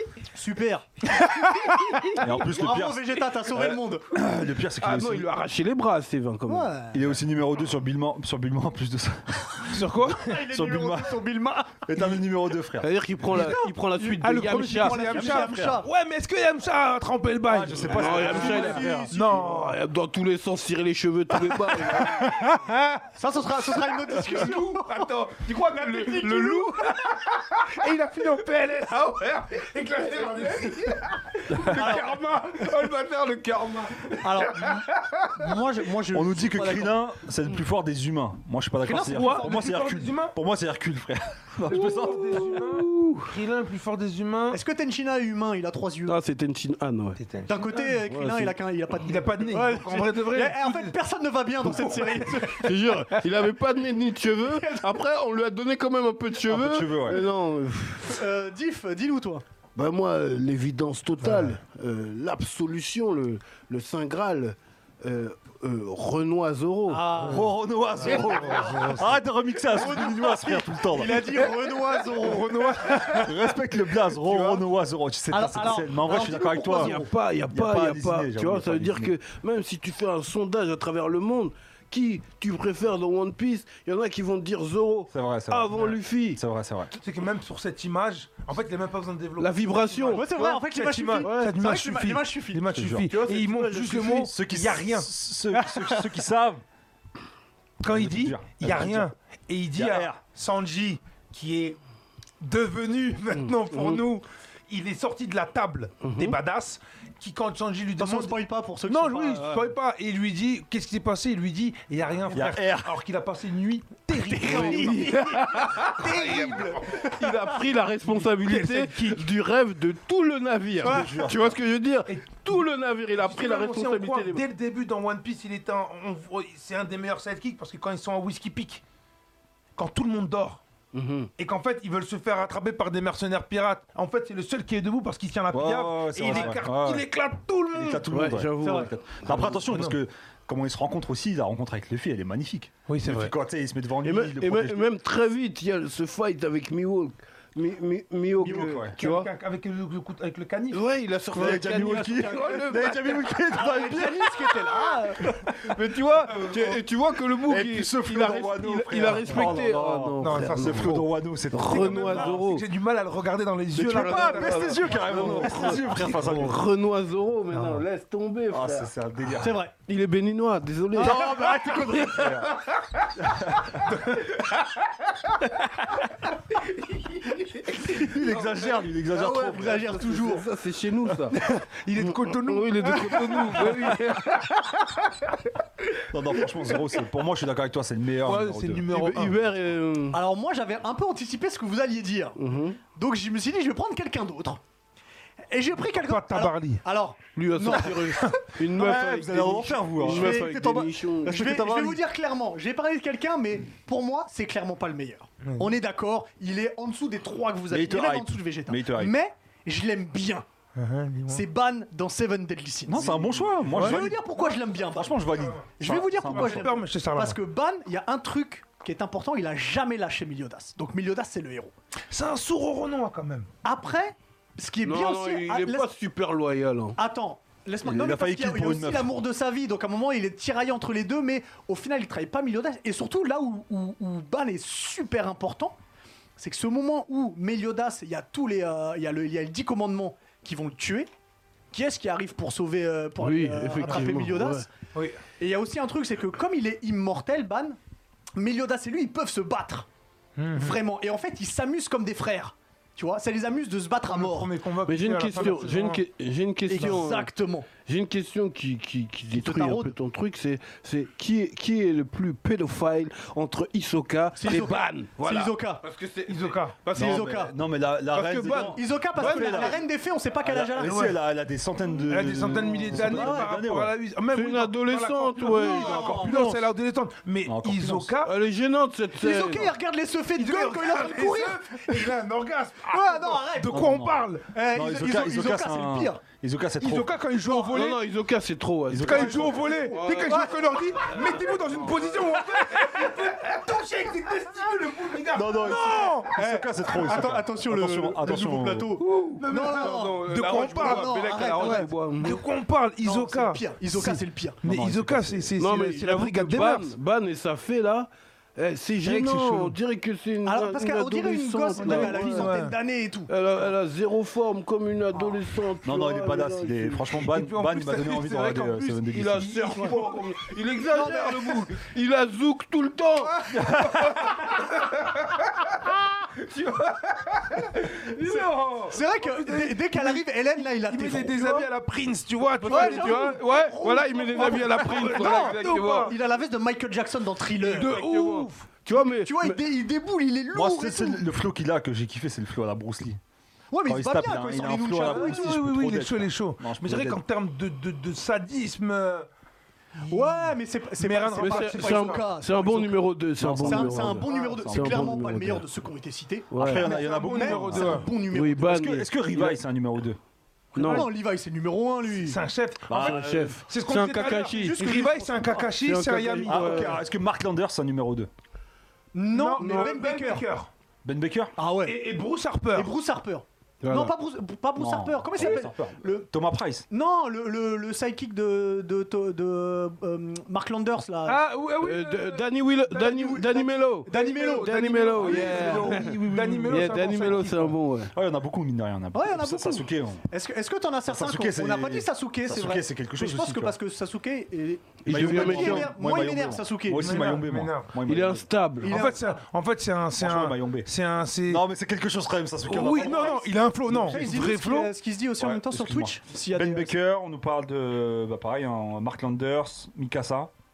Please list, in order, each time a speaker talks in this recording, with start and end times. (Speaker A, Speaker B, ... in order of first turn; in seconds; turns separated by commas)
Speaker A: 0.3-4.0, Speaker B: 1.2-2.2, Speaker C: 2.1-5.3, Speaker D: 4.8-6.7, Speaker A: 6.5-7.0, Speaker C: 6.9-11.2, Speaker B: 9.6-10.4, Speaker A: 10.1-12.2, Speaker C: 11.8-12.9, Speaker D: 12.8-15.3, Speaker B: 13.3-19.8, Speaker A: 14.1-15.9, Speaker C: 15.2-15.8, Speaker C: 17.5-19.1, Speaker D: 17.9-22.3, Speaker A: 18.0-19.5, Speaker B: 21.5-23.1, Speaker A: 23.1-25.1, Speaker B: 23.6-35.6, Speaker A: 25.7-26.9, Speaker A: 31.6-32.1, Speaker A: 34.2-37.0, Speaker C: 36.1-42.5, Speaker A: 38.9-39.6, Speaker B: 38.9-40.4, Speaker B: 41.7-44.6, Speaker D: 41.7-43.4, Speaker A: 44.5-46.2, Speaker D: 46.1-47.2, Speaker B: 47.2-48.0, Speaker A: 47.5-52.7, Speaker D: 48.1-48.6, Speaker B: 49.0-51.0, Speaker B: 51.6-52.5, Speaker D: 52.5-58.2, Speaker A: 54.6-54.9, Speaker C: 56.5-57.3, Speaker A: 58.0-59.4, Speaker D: 59.8-67.1, Speaker A: 66.9-68.9, Speaker C: 67.2-71.5, Speaker B: 68.0-69.2, Speaker A: 69.7-72.8, Speaker B: 71.5-73.4, Speaker C: 72.9-77.0, Speaker B: 74.1-74.6, Speaker A: 75.3-77.1, Speaker D: 76.7-86.4, Speaker C: 77.5-79.2, Speaker C: 85.1-86.9, Speaker B: 87.0-95.1, Speaker D: 89.4-90.6, Speaker A: 90.1-92.7, Speaker D: 91.2-91.6, Speaker C: 92.7-93.1, Speaker D: 93.1-94.3, Speaker C: 94.2-96.6, Speaker B: 97.8-101.8, Speaker C: 97.9-99.1, Speaker C: 99.8-100.2, Speaker B: 102.4-108.4, Speaker D: 103.3-104.0, Speaker D: 106.0-106.4, Speaker A: 108.0-109.7, Speaker B: 108.9-117.2, Speaker C: 112.3-112.9, Speaker A: 114.2-117.1, Speaker D: 114.4-124.4, Speaker B: 118.2-119.3, Speaker C: 120.8-121.6, Speaker B: 120.9-121.3, Speaker B: 122.1-122.7, Speaker B: 123.2-128.8, Speaker B: 129.8-130.6, Speaker D: 130.9-131.3, Speaker B: 131.4-138.1, Speaker C: 135.5-137.1, Speaker C: 137.7-144.9, Speaker D: 138.1-139.6, Speaker A: 138.6-138.9, Speaker B: 139.6-140.0, Speaker B: 142.9-143.3, Speaker D: 144.0-149.3, Speaker B: 148.4-152.2, Speaker C: 148.4-149.0, Speaker D: 150.7-153.3, Speaker C: 151.3-154.6, Speaker A: 153.5-155.3, Speaker C: 155.2-155.8, Speaker D: 155.6-162.7, Speaker C: 156.3-156.8, Speaker C: 157.4-162.4, Speaker B: 159.3-159.6, Speaker B: 160.2-161.1, Speaker B: 161.7-165.7, Speaker C: 163.8-166.6, Speaker D: 163.8-168.9, Speaker C: 168.5-169.6, Speaker A: 169.4-169.7, Speaker D: 169.8-171.5, Speaker A: 170.9-172.4, Speaker C: 171.0-172.5, Speaker C: 173.2-173.9, Speaker B: 173.9-174.4, Speaker C: 177.8-180.0, Speaker A: 179.1-180.5, Speaker D: 179.7-181.4, Speaker B: 181.5-184.4, Speaker D: 182.0-184.5, Speaker C: 186.1-188.9, Speaker B: 188.2-189.4, Speaker D: 188.9-190.2, Speaker A: 190.1-194.6, Speaker D: 192.4-192.8, Speaker A: 195.5-198.3, Speaker B: 196.0-196.8, Speaker D: 197.4-201.7, Speaker C: 198.7-202.0, Speaker A: 199.9-210.4, Speaker B: 205.4-205.7, Speaker C: 207.7-209.2, Speaker B: 210.8-211.5, Speaker A: 211.3-221.7, Speaker C: 212.9-214.2, Speaker B: 213.7-214.1, Speaker C: 214.7-216.7, Speaker B: 216.2-217.4, Speaker B: 222.1-223.5, Speaker A: 223.6-225.9, Speaker D: 224.8-227.0, Speaker A: 227.0-235.8, Speaker C: 227.8-229.2, Speaker A: 236.4-241.1, Speaker A: 241.7-244.7, Speaker D: 243.2-244.7, Speaker B: 244.9-245.2, Speaker A: 245.4-247.8, Speaker A: 248.4-249.9, Speaker B: 250.4-250.8, Speaker A: 250.6-254.5, Speaker B: 254.1-256.0, Speaker D: 254.8-267.4, Speaker A: 256.7-257.7, Speaker A: 259.3-259.9, Speaker A: 264.4-265.8, Speaker B: 266.3-266.8, Speaker A: 266.9-267.5, Speaker C: 266.9-269.8, Speaker D: 268.1-268.8, Speaker A: 268.6-271.1, Speaker B: 269.2-269.8, Speaker C: 270.4-273.9, Speaker B: 270.9-271.2, Speaker B: 272.1-278.3, Speaker D: 272.8-273.4, Speaker A: 273.0-273.5, Speaker D: 274.3-276.4, Speaker A: 275.5-276.5, Speaker C: 277.4-278.1, Speaker D: 278.2-279.7, Speaker A: 279.2-282.1, Speaker B: 280.4-284.5, Speaker A: 282.9-283.9, Speaker C: 283.7-287.2, Speaker A: 284.5-286.2, Speaker B: 286.8-288.0, Speaker D: 287.4-292.2, Speaker C: 288.9-289.7, Speaker B: 288.9-296.4, Speaker A: 290.2-290.5, Speaker C: 295.3-298.9, Speaker A: 296.2-301.9, Speaker D: 299.0-302.4, Speaker B: 299.4-306.9, Speaker A: 303.0-304.6, Speaker C: 304.6-305.5, Speaker D: 305.6-312.5, Speaker B: 309.0-309.8, Speaker A: 310.4-313.3, Speaker B: 311.8-312.8, Speaker D: 313.3-317.2, Speaker C: 315.8-319.6, Speaker B: 317.2-321.7, Speaker D: 319.1-323.5, Speaker B: 323.3-325.7, Speaker C: 323.5-324.2, Speaker B: 326.9-336.1, Speaker D: 328.0-328.6, Speaker A: 328.9-331.7, Speaker D: 332.6-336.1, Speaker A: 332.6-338.0, Speaker B: 337.6-338.7, Speaker D: 337.8-339.6, Speaker A: 338.9-341.2, Speaker C: 340.5-343.2, Speaker A: 343.7-345.6, Speaker C: 343.9-347.2, Speaker B: 345.0-349.3, Speaker B: 350.0-352.3, Speaker A: 350.1-353.0, Speaker D: 351.4-355.7, Speaker C: 353.4-355.1, Speaker A: 353.6-358.8, Speaker D: 356.5-356.9, Speaker C: 356.6-358.1, Speaker B: 356.8-358.1, Speaker D: 358.3-359.6, Speaker C: 358.6-360.2, Speaker D: 360.8-361.1, Speaker B: 360.8-361.1, Speaker A: 360.8-362.4, Speaker B: 362.2-367.0, Speaker C: 362.9-363.6, Speaker D: 362.9-365.1, Speaker A: 364.6-365.7, Speaker D: 365.6-367.0, Speaker C: 366.5-368.3, Speaker A: 369.1-370.5, Speaker B: 369.3-370.7, Speaker D: 369.6-369.9, Speaker C: 371.0-371.6, Speaker A: 371.6-372.0, Speaker B: 371.9-372.9, Speaker A: 372.8-376.3, Speaker D: 373.8-374.1, Speaker C: 374.8-376.9, Speaker A: 376.9-381.4, Speaker B: 381.3-383.4, Speaker D: 381.8-388.1, Speaker A: 383.0-385.9, Speaker B: 384.1-387.8, Speaker C: 385.2-386.8, Speaker C: 388.1-390.3, Speaker A: 389.1-397.3, Speaker C: 391.1-393.8, Speaker D: 395.0-395.9, Speaker C: 395.1-398.5, Speaker B: 397.0-397.9, Speaker D: 398.1-399.1, Speaker A: 398.8-399.4, Speaker B: 398.8-401.6, Speaker C: 400.2-400.9, Speaker C: 401.5-404.4, Speaker B: 402.7-404.9, Speaker A: 402.7-407.0, Speaker C: 405.4-410.5